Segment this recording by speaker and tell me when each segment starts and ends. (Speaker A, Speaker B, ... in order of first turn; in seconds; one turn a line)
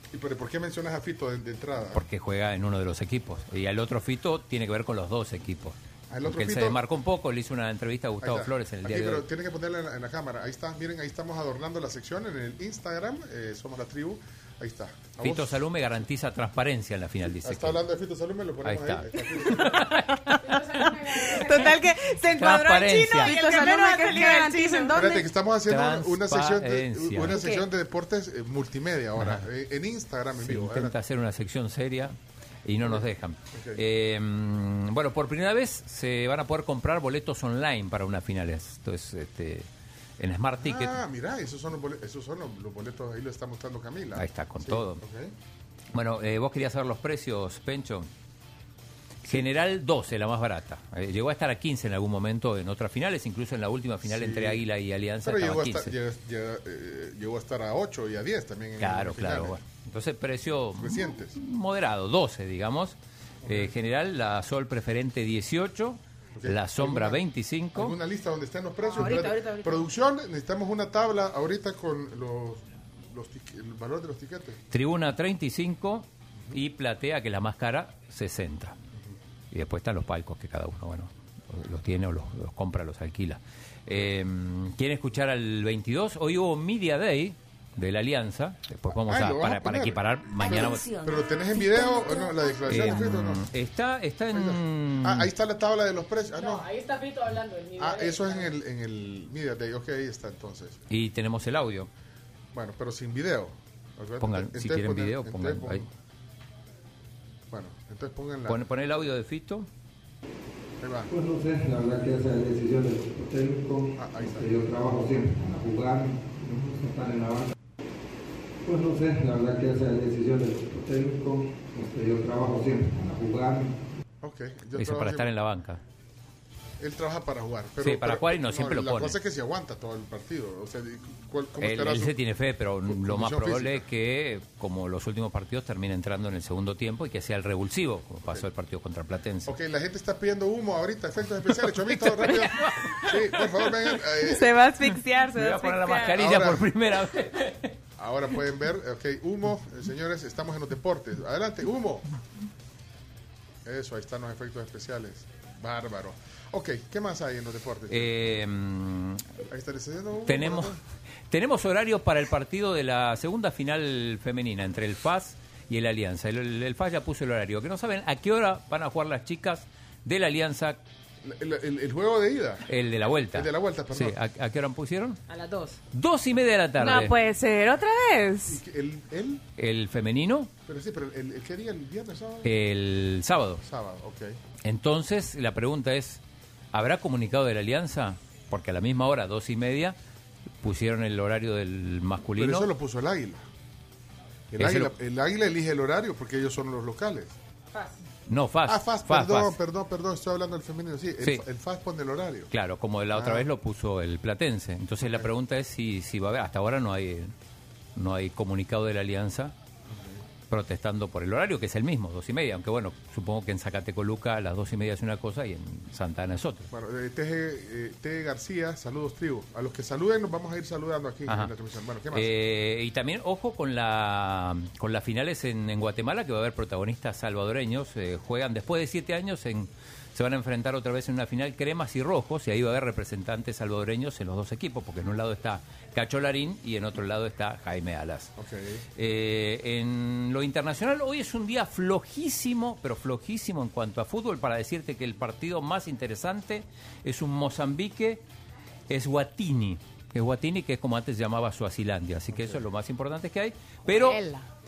Speaker A: 0.1-2.0
Speaker B: 1.9-9.2
Speaker A: 6.1-6.8
Speaker A: 8.2-15.6
Speaker B: 15.2-17.8
Speaker A: 17.2-19.8
Speaker B: 18.6-20.5
Speaker C: 19.7-20.4
Speaker D: 20.4-22.1
Speaker C: 21.3-24.9
Speaker B: 22.3-23.4
Speaker D: 22.7-25.3
Speaker A: 24.9-30.9
Speaker B: 25.6-27.4
Speaker D: 27.3-27.7
Speaker B: 29.2-29.5
Speaker B: 30.4-39.7
Speaker A: 32.8-33.8
Speaker B: 40.2-41.0
Speaker A: 40.6-45.3
Speaker B: 44.1-45.0
Speaker B: 45.9-48.1
Speaker B: 49.2-55.9
Speaker A: 54.0-54.6
Speaker A: 55.2-59.6
Speaker B: 58.8-68.0
Speaker A: 60.8-61.4
Speaker A: 63.4-63.8
Speaker A: 66.3-67.2
Speaker A: 67.7-74.6
Speaker D: 68.8-69.9
Speaker B: 74.7-78.7
Speaker B: 79.5-90.9
Speaker A: 88.9-93.4
Speaker D: 90.5-91.2
Speaker D: 91.8-92.7
Speaker B: 92.7-95.3
Speaker A: 94.3-96.7
Speaker D: 96.4-98.5
Speaker A: 97.8-100.8
Speaker B: 100.9-101.9
Speaker A: 102.5-105.9
Speaker B: 104.2-105.8
Speaker A: 107.5-108.7
Speaker B: 108.5-109.7
Speaker A: 110.8-111.1
Speaker E: 111.1-117.5
Speaker A: 113.9-114.5
Speaker E: 118.6-123.8
Speaker A: 124.2-125.3
Speaker B: 124.7-125.8
Speaker A: 126.8-132.1
Speaker B: 127.8-129.2
Speaker B: 131.6-139.5
Speaker A: 132.8-133.8
Speaker A: 139.4-144.5
Speaker B: 141.6-143.7
Speaker C: 144.2-146.2
Speaker B: 145.3-147.7
Speaker A: 146.1-146.7
Speaker A: 148.0-152.1
Speaker A: 153.6-158.2
Speaker B: 157.9-159.2
Speaker A: 159.5-160.8
Speaker B: 160.2-160.8
Speaker B: 161.3-170.8
Speaker A: 171.2-172.7
Speaker B: 172.7-175.2
Speaker A: 173.3-174.2
Speaker D: 175.3-175.8
Speaker B: 175.9-177.1
Speaker C: 176.8-178.6
Speaker D: 176.8-177.1
Speaker A: 178.4-179.4
Speaker B: 179.6-180.5
Speaker A: 180.7-182.5
Speaker B: 182.4-183.6
Speaker A: 183.6-184.3
Speaker B: 184.6-186.2
Speaker B: 186.7-189.9
Speaker B: 190.6-192.7
Speaker A: 192.3-193.4
Speaker A: 194.5-197.3
Speaker B: 194.6-194.9
Speaker D: 197.7-198.0
Speaker B: 198.3-199.6
Speaker A: 198.6-202.5
Speaker B: 202.5-207.3
Speaker A: 203.1-203.5
Speaker A: 205.0-205.3
Speaker B: 207.9-209.5
Speaker A: 209.9-210.2
Speaker B: 210.5-216.7
Speaker A: 216.7-222.3
Speaker B: 221.3-221.5
Speaker B: 222.1-238.3
Speaker A: 238.4-238.8
Speaker B: 238.9-248.2
Speaker B: 248.9-254.2
Speaker D: 253.9-254.4